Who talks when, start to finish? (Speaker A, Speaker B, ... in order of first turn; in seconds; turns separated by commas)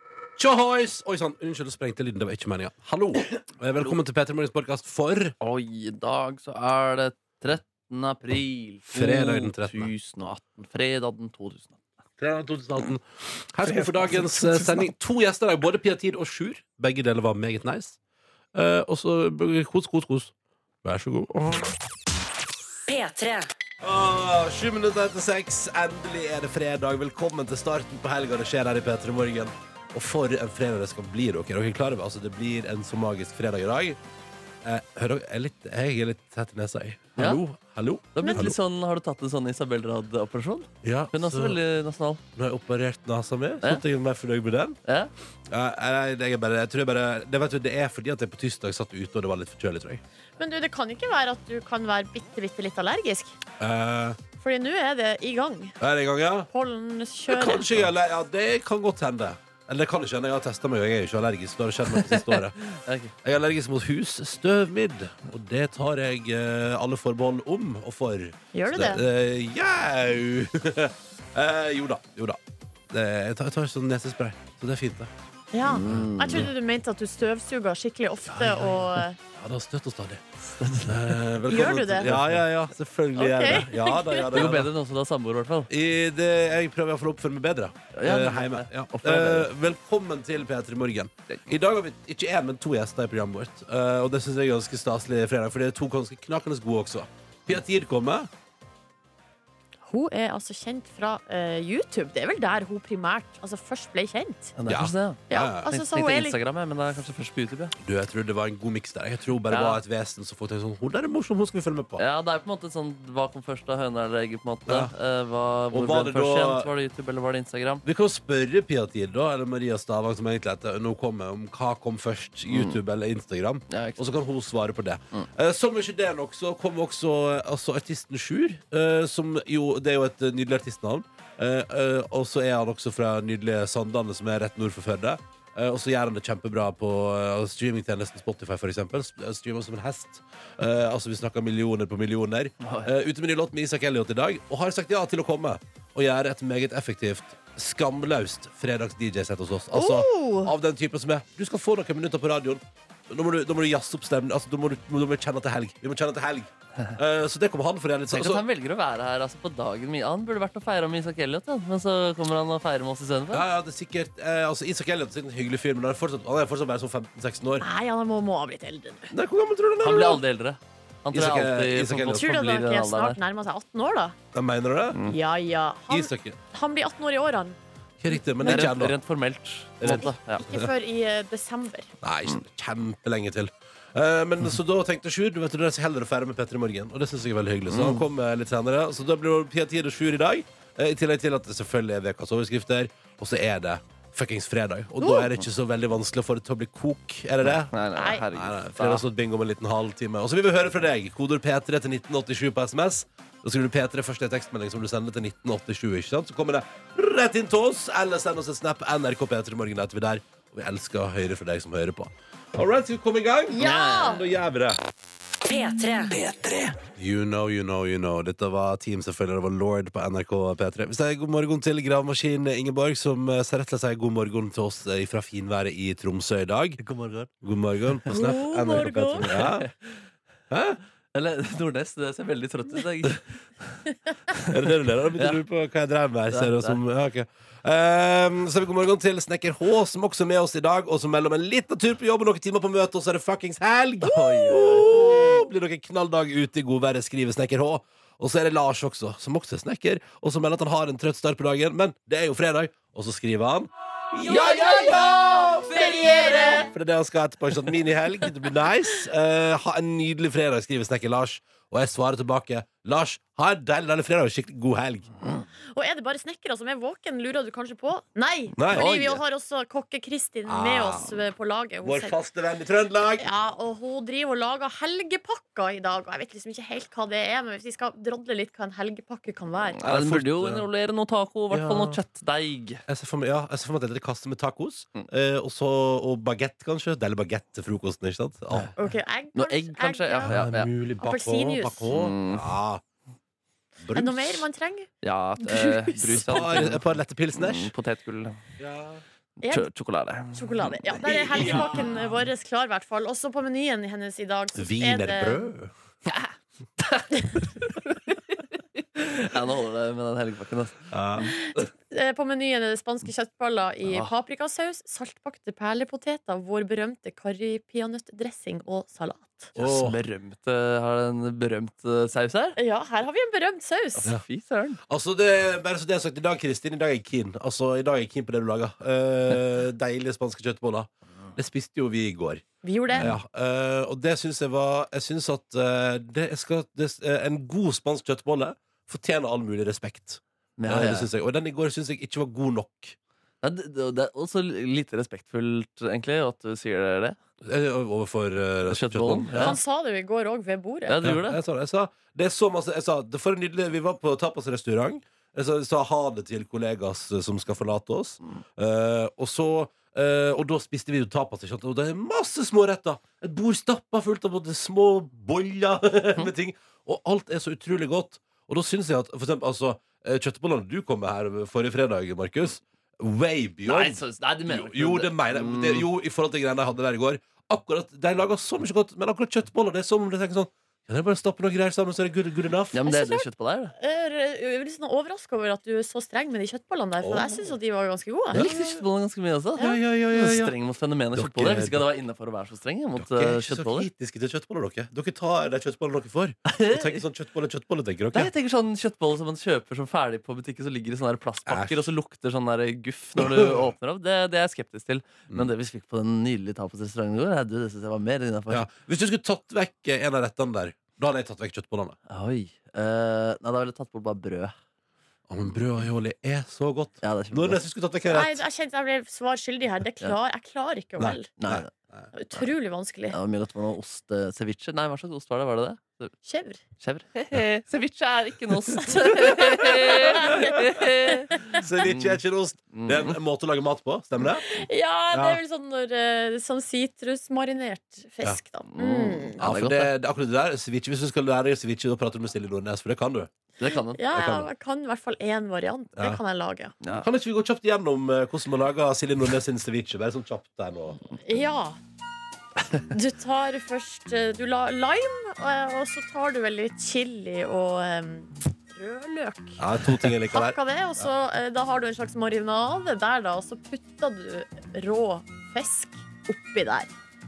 Speaker A: 0.4-5.3, Speaker B: 5.4-11.8, Speaker A: 8.9-9.9, Speaker A: 12.2-18.0, Speaker B: 13.7-14.8, Speaker A: 18.5-20.3, Speaker A: 20.8-21.7, Speaker C: 22.9-23.5, Speaker A: 23.8-34.0, Speaker A: 34.6-38.5, Speaker B: 37.1-37.4, Speaker B: 38.1-42.2, Speaker D: 38.2-38.5, Speaker A: 40.8-41.6, Speaker A: 42.4-44.8, Speaker A: 45.5-50.0, Speaker D: 50.4-53.4, Speaker A: 53.6-54.2, Speaker D: 54.4-55.8, Speaker A: 55.8-56.5, Speaker D: 56.5-57.6, Speaker A: 57.3-62.6, Speaker B: 61.9-63.1, Speaker A: 63.2-72.4, Speaker D: 68.5-69.0, Speaker A: 72.9-75.1, Speaker D: 75.5-79.2, Speaker B: 75.7-76.5, Speaker A: 75.8-76.5, Speaker A: 78.3-78.8, Speaker A: 79.3-84.7, Speaker B: 80.6-81.1, Speaker D: 81.5-82.1, Speaker B: 82.0-82.4, Speaker D: 83.2-84.4, Speaker B: 84.3-85.7, Speaker A: 85.7-98.3, Speaker B: 88.0-89.5, Speaker D: 99.8-104.5, Speaker B: 104.6-107.7, Speaker A: 104.7-105.7, Speaker D: 105.3-106.3, Speaker A: 107.8-112.0, Speaker B: 109.5-109.8, Speaker B: 112.0-117.8, Speaker A: 114.7-114.9, Speaker A: 115.7-116.7, Speaker A: 117.8-158.4, Speaker B: 122.5-122.8, Speaker B: 123.7-124.0, Speaker B: 142.6-142.9, Speaker D: 149.7-150.5, Speaker B: 158.1-163.5, Speaker A: 163.3-167.6, Speaker D: 167.6-169.1, Speaker A: 169.1-170.2, Speaker B: 169.8-173.2, Speaker A: 171.1-172.4, Speaker D: 172.1-174.1, Speaker A: 174.3-175.0, Speaker D: 175.1-177.6, Speaker A: 175.9-176.4, Speaker A: 178.0-178.9, Speaker D: 178.1-178.7, Speaker B: 178.4-180.4, Speaker A: 179.8-180.7, Speaker D: 179.8-181.9, Speaker A: 182.0-214.8, Speaker B: 187.7-188.0, Speaker B: 197.4-199.0, Speaker D: 197.9-198.2, Speaker D: 213.5-214.2, Speaker B: 213.6-214.1, Speaker C: 215.4-216.8, Speaker A: 217.0-229.7, Speaker B: 226.8-227.3, Speaker D: 228.1-229.3, Speaker B: 229.3-229.9, Speaker A: 230.5-230.8, Speaker B: 231.1-233.8, Speaker A: 234.4-255.9, Speaker B: 235.2-235.4, Speaker B: 236.3-236.8, Speaker B: 244.0-245.3, Speaker D: 254.2-255.0, Speaker B: 254.3-256.6, Speaker D: 255.6-256.7, Speaker A: 256.7-265.1, Speaker D: 265.7-272.2, Speaker A: 268.6-268.9, Speaker B: 268.7-269.2, Speaker A: 270.5-271.1, Speaker A: 271.8-273.2, Speaker D: 273.2-279.8, Speaker B: 279.8-282.8, Speaker A: 279.8-280.7, Speaker A: 281.5-282.0, Speaker A: 282.9-288.7, Speaker D: 288.8-290.4, Speaker B: 289.3-290.7, Speaker A: 290.3-292.8, Speaker D: 291.0-291.9, Speaker B: 291.9-292.5, Speaker A: 293.8-294.4, Speaker D: 293.9-294.9, Speaker B: 295.0-298.4, Speaker A: 296.1-297.7, Speaker A: 298.6-299.0, Speaker B: 299.4-301.6, Speaker D: 300.3-305.5, Speaker A: 301.3-301.6, Speaker A: 304.5-305.7, Speaker B: 306.1-307.8, Speaker B: 308.9-311.3, Speaker A: 310.9-311.3, Speaker D: 311.4-319.5, Speaker A: 319.6-319.9, Speaker B: 319.6-322.6, Speaker D: 322.6-324.1, Speaker B: 324.0-324.8, Speaker A: 324.9-342.9, Speaker D: 332.6-333.1, Speaker B: 340.6-341.1, Speaker B: 343.4-347.2, Speaker A: 347.4-349.6, Speaker B: 348.7-349.6, Speaker D: 349.3-351.0, Speaker B: 350.9-351.4, Speaker A: 351.0-382.8, Speaker B: 373.6-375.9, Speaker B: 382.7-383.7, Speaker D: 382.9-383.2, Speaker D: 383.8-388.4, Speaker A: 387.0-387.4, Speaker A: 388.3-388.8, Speaker B: 388.3-393.9, Speaker A: 389.6-390.5, Speaker A: 391.1-391.8, Speaker A: 393.0-398.3, Speaker B: 396.5-397.0, Speaker B: 398.1-408.7, Speaker A: 401.5-401.9, Speaker A: 403.2-403.6, Speaker A: 408.5-412.0, Speaker B: 412.1-414.5, Speaker A: 415.3-418.4, Speaker B: 417.0-417.6, Speaker D: 418.1-421.3, Speaker A: 421.0-422.0, Speaker B: 421.4-421.7, Speaker D: 422.1-423.1, Speaker B: 423.1-426.1, Speaker D: 426.2-426.6, Speaker B: 426.8-432.2, Speaker D: 428.8-431.6, Speaker A: 431.5-434.4, Speaker B: 432.7-433.2, Speaker D: 434.4-439.4, Speaker A: 435.1-435.4, Speaker B: 438.7-439.9, Speaker A: 439.4-443.3, Speaker B: 443.6-444.2, Speaker D: 443.9-446.7, Speaker A: 444.1-444.5, Speaker A: 446.9-451.0, Speaker D: 451.2-451.8, Speaker D: 452.9-459.6, Speaker A: 459.6-461.1, Speaker D: 460.3-466.9